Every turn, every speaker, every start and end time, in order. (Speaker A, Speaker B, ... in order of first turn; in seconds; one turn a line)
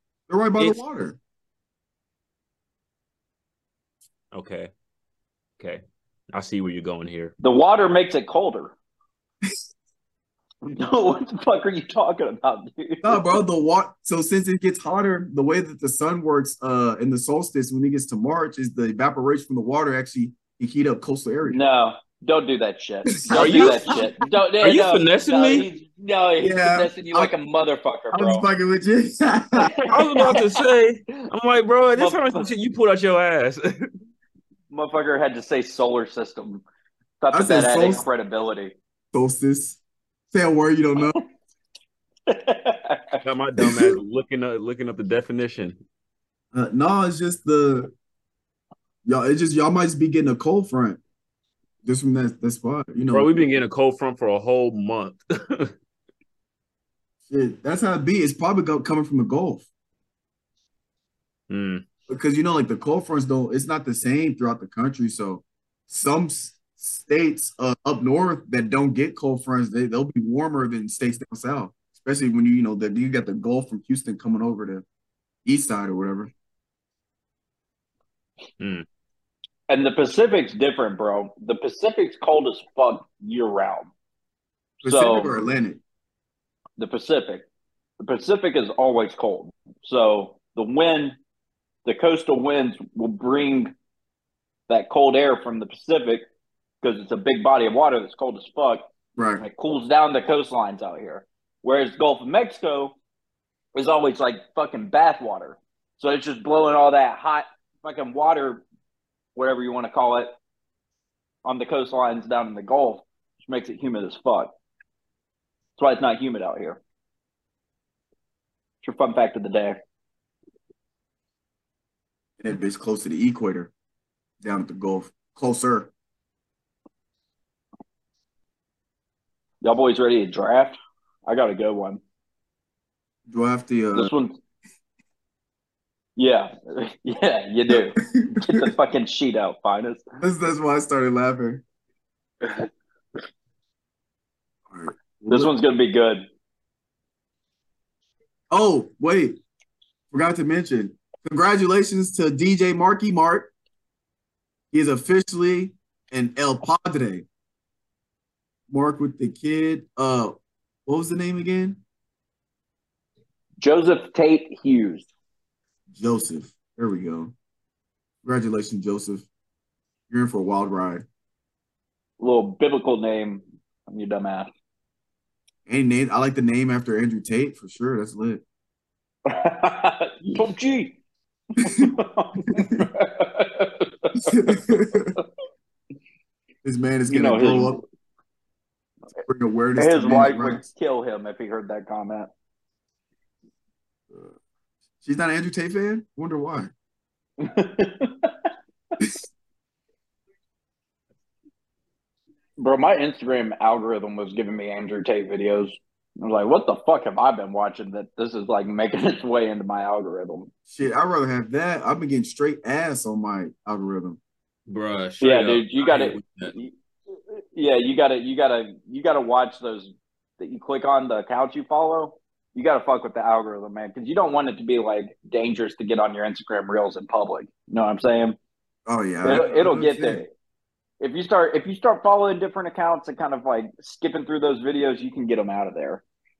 Speaker A: 0.3-1.2
Speaker B: 4.3-4.7
Speaker B: 6.3-7.3
Speaker C: 7.4-8.7
Speaker C: 10.7-13.3
Speaker A: 13.0-21.6
Speaker C: 21.5-28.5
Speaker A: 23.3-24.1
Speaker B: 23.4-24.0
Speaker B: 24.6-25.7
Speaker A: 26.4-27.3
Speaker A: 28.1-30.3
Speaker C: 29.6-30.5
Speaker B: 29.9-33.9
Speaker C: 31.9-32.5
Speaker C: 34.7-36.6
Speaker C: 37.2-38.7
Speaker A: 37.3-38.0
Speaker A: 39.1-39.8
Speaker A: 40.3-41.2
Speaker C: 42.3-43.2
Speaker B: 43.2-45.8
Speaker A: 43.6-44.0
Speaker A: 46.5-47.9
Speaker A: 49.1-51.0
Speaker A: 51.9-53.4
Speaker B: 53.1-55.7
Speaker A: 57.3-59.7
Speaker B: 61.5-61.8
Speaker A: 62.1-74.8
Speaker A: 75.5-76.3
Speaker B: 78.6-78.8
Speaker C: 79.7-83.9
Speaker A: 84.8-85.8
Speaker C: 84.8-85.3
Speaker C: 86.8-87.5
Speaker C: 88.0-91.2
Speaker C: 91.8-93.7
Speaker C: 94.7-96.2
Speaker C: 96.8-98.8
Speaker A: 99.2-99.4
Speaker C: 99.4-102.9
Speaker C: 103.8-108.6
Speaker C: 109.4-110.3
Speaker C: 111.5-114.5
Speaker C: 115.8-116.8
Speaker C: 118.8-119.8
Speaker A: 122.4-123.7
Speaker A: 124.4-125.9
Speaker C: 129.6-132.0
Speaker A: 133.3-134.1
Speaker C: 133.9-134.4
Speaker C: 136.2-140.1
Speaker A: 137.7-138.7
Speaker A: 140.2-141.6
Speaker A: 144.7-145.5
Speaker C: 145.3-146.3
Speaker A: 148.5-149.4
Speaker A: 150.1-153.5
Speaker A: 154.7-157.3
Speaker A: 158.7-161.8
Speaker C: 163.6-165.1
Speaker A: 165.9-167.3
Speaker A: 168.2-169.3
Speaker A: 170.1-171.1
Speaker C: 172.2-174.5
Speaker A: 175.7-178.4
Speaker C: 179.3-180.9
Speaker C: 181.6-184.6
Speaker A: 181.6-181.9
Speaker A: 182.5-182.9
Speaker A: 184.1-185.2
Speaker A: 186.6-187.8
Speaker C: 187.1-187.8
Speaker A: 189.3-190.6
Speaker C: 189.8-192.3
Speaker A: 195.0-196.7
Speaker C: 197.4-198.3
Speaker C: 202.6-210.5
Speaker A: 210.7-214.2
Speaker B: 214.7-216.6
Speaker C: 215.2-216.7
Speaker C: 217.3-228.4
Speaker A: 228.9-230.2
Speaker C: 229.2-230.3
Speaker C: 231.0-236.0